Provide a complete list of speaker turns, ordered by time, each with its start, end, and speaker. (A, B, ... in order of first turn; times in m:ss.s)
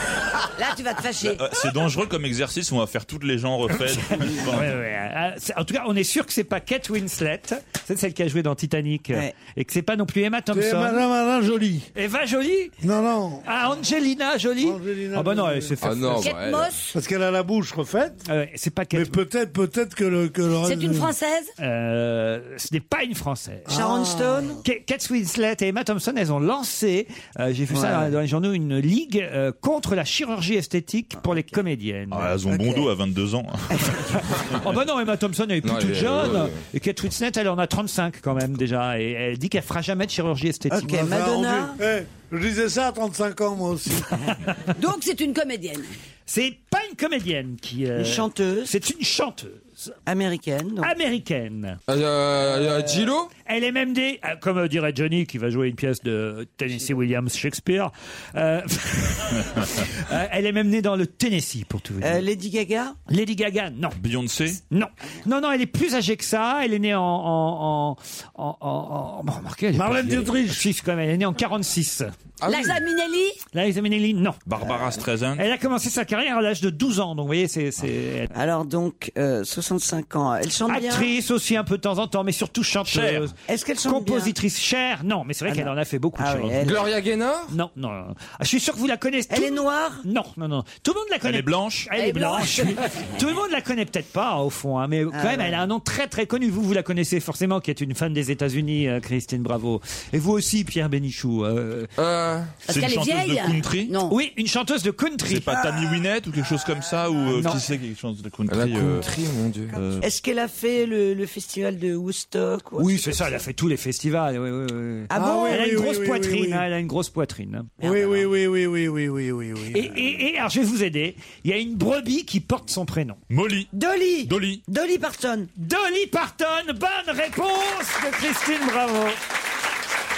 0:00.6-0:01.4 A
0:01.3-0:04.7 B
0:04.1-0:11.0 C
0:10.5-0:11.9 D
0:12.0-0:12.7 C
0:12.8-0:13.4 D
0:13.4-0:16.3 C
0:14.6-0:15.8 D
0:15.8-0:16.7 E
0:16.2-0:17.0 A
0:16.9-0:18.2 D
0:18.3-0:19.2 C
0:18.9-0:21.1 D
0:20.6-0:21.5 A
0:21.6-0:23.8 C
0:23.7-0:24.6 D
0:23.7-0:24.6 F
0:24.6-0:32.4 C
0:27.7-0:28.1 F
0:32.1-0:34.2 B
0:32.5-0:32.9 F
0:34.1-0:41.0 C
0:35.6-0:36.6 E
0:40.7-0:41.8 F
0:40.8-0:44.2 D
0:44.7-0:45.9 A
0:46.3-0:50.0 C
0:48.0-0:48.7 F
0:50.0-0:50.9 F
0:50.8-0:51.8 C
0:51.9-0:53.3 E
0:52.6-0:52.9 F
0:53.4-1:02.3 C
1:02.0-1:03.0 F
1:03.1-1:04.0 C
1:04.0-1:04.6 B
1:04.6-1:12.1 C
1:09.7-1:10.6 D
1:12.4-1:12.8 E
1:12.4-1:13.4 A
1:13.5-1:14.4 C
1:14.4-1:15.4 B
1:15.4-1:18.3 C
1:18.3-1:21.1 F
1:20.7-1:23.3 C
1:22.9-1:23.3 B
1:23.5-1:24.3 F
1:23.8-1:26.6 C
1:25.5-1:26.9 F
1:26.6-1:27.5 E
1:27.5-1:41.9 C
1:29.3-1:30.0 F
1:31.2-1:31.9 B
1:32.0-1:32.8 A
1:35.1-1:35.6 F
1:42.0-1:42.6 E
1:42.7-1:44.0 B
1:42.7-1:44.2 A
1:44.1-1:45.5 C
1:45.3-1:49.1 B
1:47.3-1:47.6 C
1:48.5-1:49.8 E
1:49.7-1:50.1 B
1:50.0-1:53.2 F
1:52.8-1:57.9 C
1:55.1-1:55.7 F
1:55.1-1:56.7 D
1:57.8-2:00.2 D
1:59.7-2:03.2 C
2:03.3-2:03.7 B
2:03.7-2:05.5 F
2:04.2-2:04.6 B
2:05.6-2:09.2 C